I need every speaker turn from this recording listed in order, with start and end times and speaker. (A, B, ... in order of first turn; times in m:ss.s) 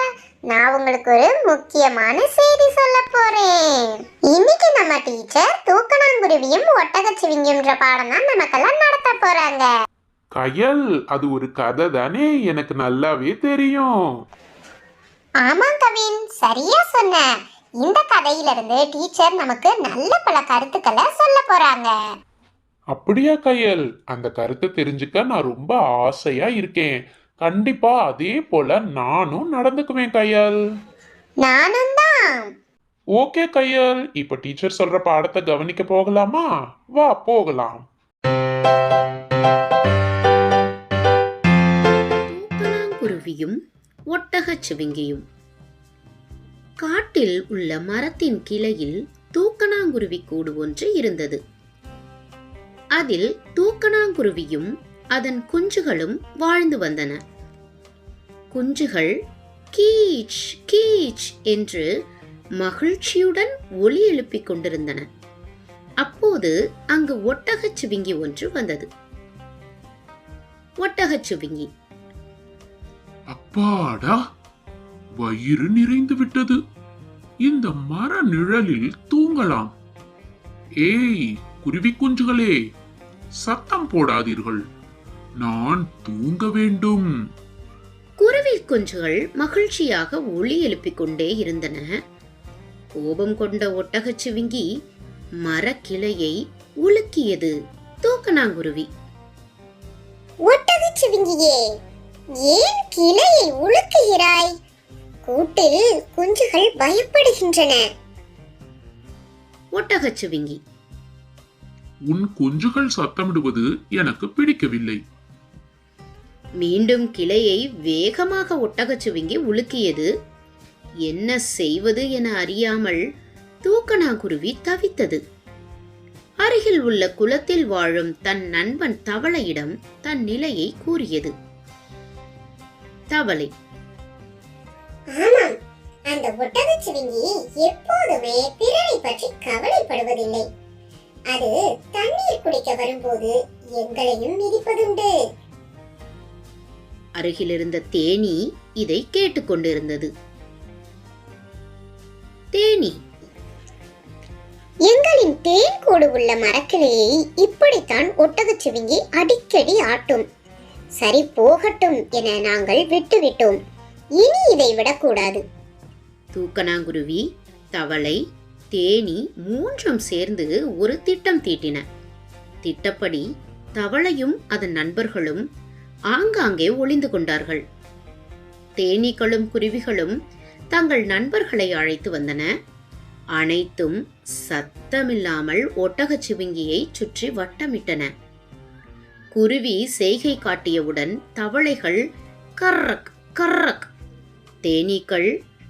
0:00.5-0:09.7 A
0:10.3-0:13.9 B
0:15.4-0:17.3 A
0:17.8-0:21.9 A
0:22.9-0:30.6 B
0:31.4-0:32.5 A
0:33.2-0:37.8 B
0:42.3-0:43.6 C
0:44.1-0:45.2 C
0:46.8-0:51.4 C
0:53.0-0:57.2 C
0:58.5-0:59.2 C
0:59.7-1:01.9 C
1:02.6-1:05.0 C
1:06.0-1:08.9 C
1:10.8-1:11.7 C
1:13.3-1:14.2 B
1:15.2-1:16.6 B
1:17.4-1:19.7 B
1:20.8-1:22.6 B
1:23.4-1:24.6 B
1:25.4-1:27.1 B
1:28.2-1:31.9 C
1:33.0-1:34.7 C
1:35.4-1:38.9 C
1:40.5-1:41.6 A
1:42.4-1:44.5 A
1:45.2-1:47.8 A
1:49.7-1:50.6 C
1:52.1-1:55.0 B
1:56.6-2:00.1 C
2:01.0-2:03.0 C
2:03.6-2:05.2 C
2:06.4-2:11.3 C
2:13.1-2:13.5 C
2:15.2-2:15.5 A
2:16.1-2:20.4 A
2:21.3-2:25.1 A
2:27.2-2:30.1 C
2:32.5-2:33.0 C
2:34.9-2:40.2 A
2:41.0-2:43.6 A
2:44.2-2:45.4 A
2:46.3-2:47.2 C
2:47.7-2:48.2 C
2:48.7-2:51.8 C
2:52.6-2:55.4 C
2:56.1-2:57.6 C
2:58.8-3:00.2 C
3:00.7-3:02.5 C
3:03.4-3:08.1 C
3:09.3-3:12.0 C
3:12.6-3:13.9 C
3:14.6-3:15.3 C